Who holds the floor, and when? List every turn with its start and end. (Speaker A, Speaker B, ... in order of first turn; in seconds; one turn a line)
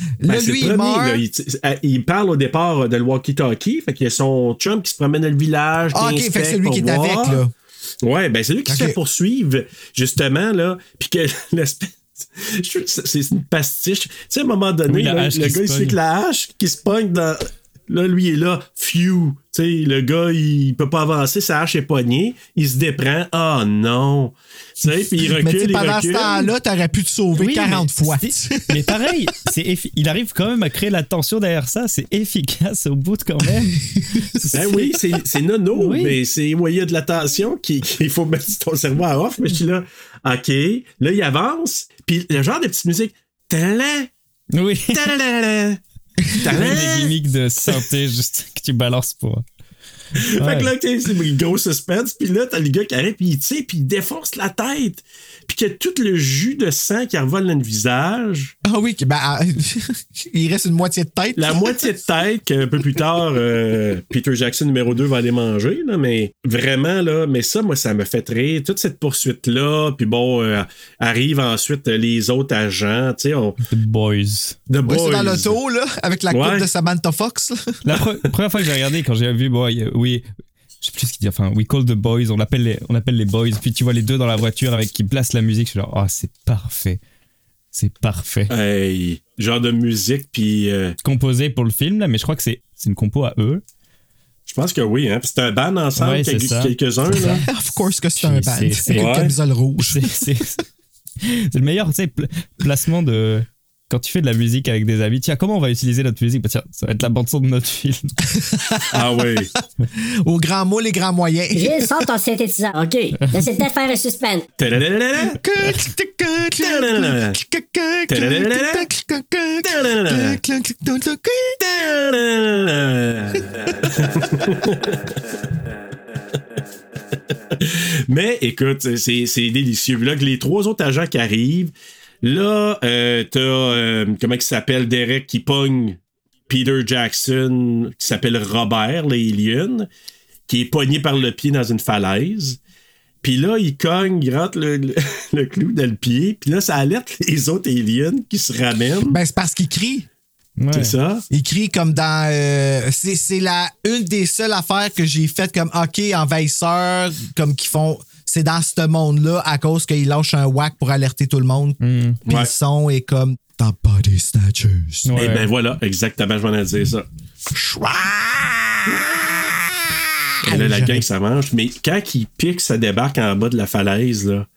Speaker A: 0.2-1.2
Speaker B: 0.3-7.4
Speaker A: 5.9-7.5
Speaker B: 8.0-26.5
Speaker A: 8.7-9.0
Speaker C: 14.9-16.0
Speaker A: 25.4-28.9
Speaker C: 27.4-35.0
Speaker B: 34.5-44.1
Speaker C: 35.7-36.2
Speaker C: 44.5-45.1
Speaker B: 44.9-45.8
Speaker B: 46.3-47.1
Speaker C: 46.4-49.4
Speaker B: 50.2-58.5
Speaker C: 50.4-50.7
Speaker A: 58.6-61.9
Speaker B: 61.4-73.6
Speaker C: 73.7-74.6
Speaker B: 74.7-75.6
Speaker A: 74.8-77.8
Speaker B: 76.3-76.7
Speaker C: 77.8-80.2
Speaker C: 80.8-87.0
Speaker C: 87.7-88.5
Speaker B: 88.5-91.0
Speaker C: 91.0-93.6
Speaker B: 94.5-97.4
Speaker C: 96.0-97.5
Speaker A: 97.3-100.1
Speaker C: 98.2-99.2
Speaker B: 98.9-99.3
Speaker C: 99.8-100.6
Speaker C: 101.2-108.1
Speaker A: 108.4-109.0
Speaker B: 108.9-109.5
Speaker A: 110.0-112.1
Speaker D: 111.5-114.5
Speaker B: 114.6-115.4
Speaker A: 115.2-121.6
Speaker B: 116.6-117.4
Speaker B: 118.1-118.9
Speaker B: 119.6-120.4
Speaker B: 121.6-125.0
Speaker B: 127.5-136.0
Speaker B: 136.5-139.9
Speaker B: 140.5-142.6
Speaker B: 143.2-149.2
Speaker A: 149.1-150.1
Speaker C: 150.6-150.9
Speaker B: 150.7-151.2
Speaker A: 151.3-165.1
Speaker C: 161.8-162.2
Speaker B: 162.2-162.5
Speaker C: 165.1-165.5
Speaker B: 165.1-167.1
Speaker A: 167.5-169.9
Speaker A: 170.4-171.1
Speaker B: 170.4-174.5